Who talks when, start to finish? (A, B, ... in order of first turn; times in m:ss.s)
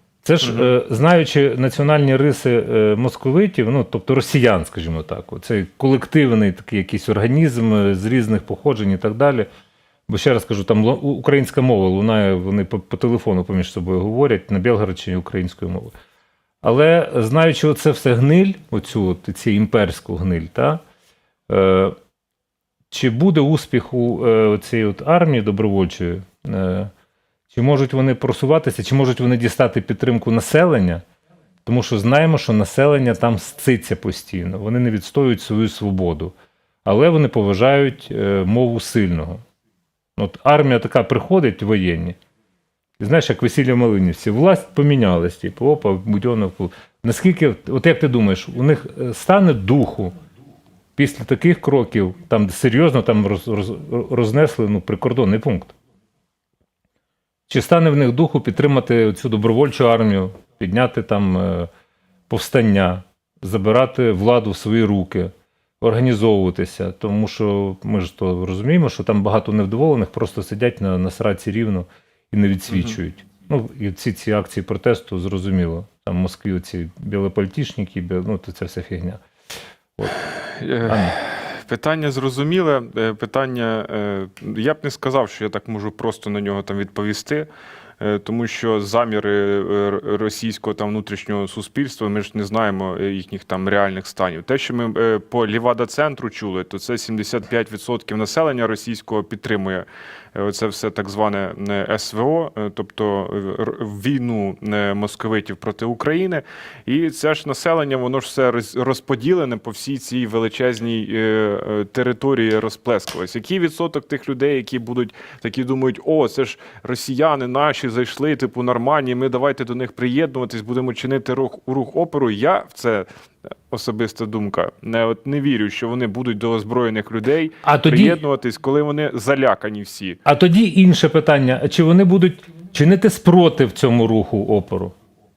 0:00.2-0:09.5 A
0:00.4-0:00.7 B
0:10.1-0:15.9 A
0:16.6-0:20.8 A
0:21.5-0:22.0 A
0:22.9-0:26.9 A
0:27.5-0:31.0 A
0:31.6-0:36.3 A
0:36.8-0:39.4 A
0:40.2-0:42.2 A
0:43.0-0:50.1 A
0:51.0-0:55.7 A
0:57.5-1:01.7 A
1:02.3-1:19.2 A
1:12.7-1:13.0 B
1:20.0-1:20.3 A
1:20.4-1:27.5 B
1:20.8-1:21.2 A
1:28.0-2:03.1 B
2:03.7-2:10.2 B
2:07.6-2:08.2 A
2:10.2-2:14.9 A